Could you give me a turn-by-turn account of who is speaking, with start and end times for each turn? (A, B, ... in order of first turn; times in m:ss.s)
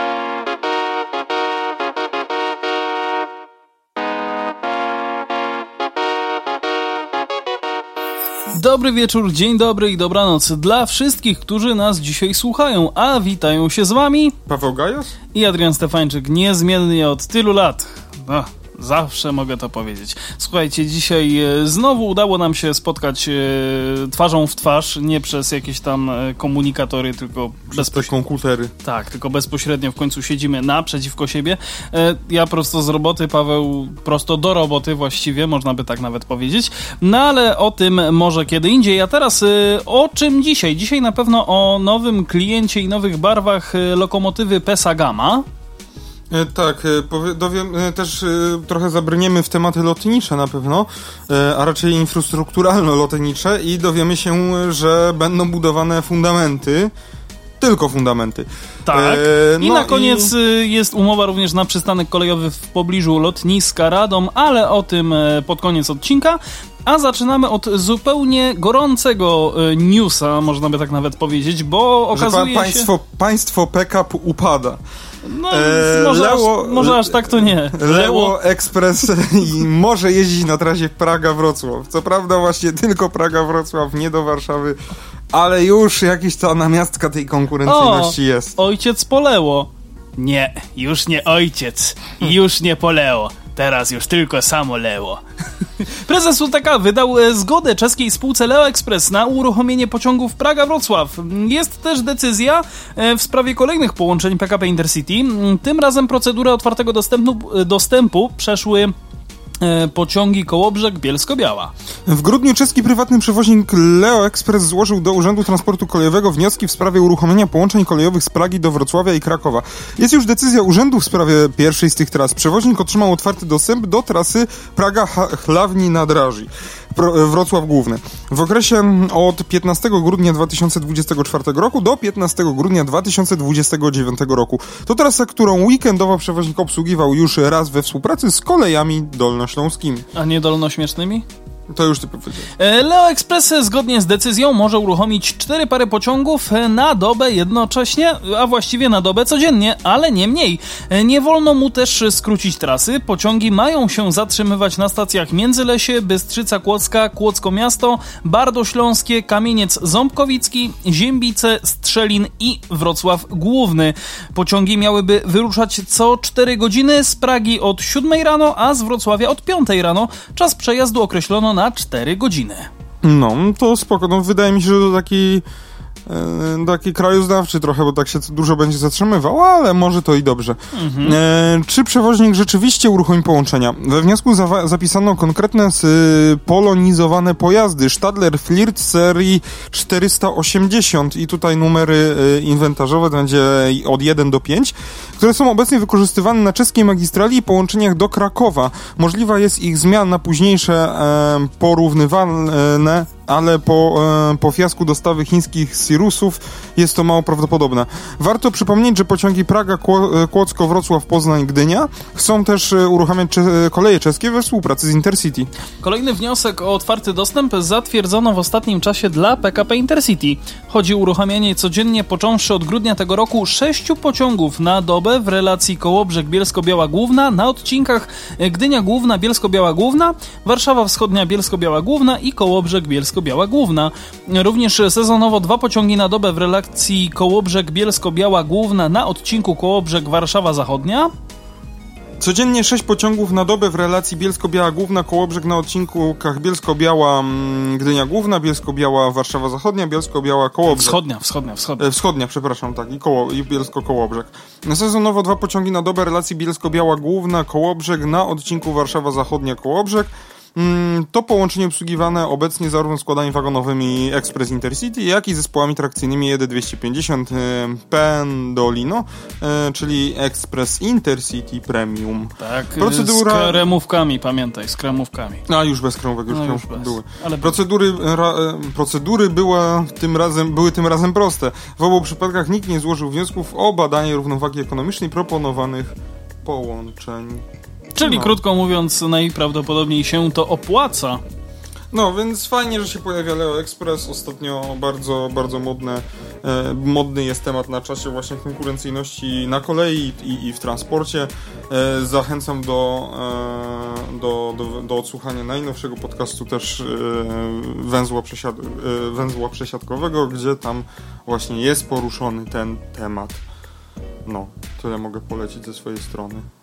0:08.5-0:14.3 A
0:14.5-0:15.1 B
0:15.3-0:28.1 A
0:27.7-0:28.7 B
0:28.8-0:45.4 A
0:46.3-0:56.9 B
0:57.6-1:00.3 B
0:58.8-1:12.9 A
1:12.1-1:14.8 B
1:15.2-1:18.3 A
1:15.5-1:24.8 B
1:25.3-1:28.6 B
1:27.6-1:35.2 A
1:35.8-1:48.9 A
1:49.6-1:51.7 A
1:52.0-2:20.1 B
2:20.1-2:21.2 A
2:21.7-2:22.5 B
2:22.6-2:52.7 A
2:53.0-2:55.4 B
2:56.0-3:35.5 B
3:00.7-3:01.2 A
3:35.8-4:01.1 A
4:02.2-4:11.0 B
4:10.7-4:11.9 A
4:11.8-4:33.6 B
4:32.4-4:35.4 A
4:35.5-4:47.4 B
4:36.3-4:37.6 A
4:47.9-4:51.2 A
4:48.0-4:48.4 B
4:51.9-5:13.4 B
5:14.2-5:16.5 B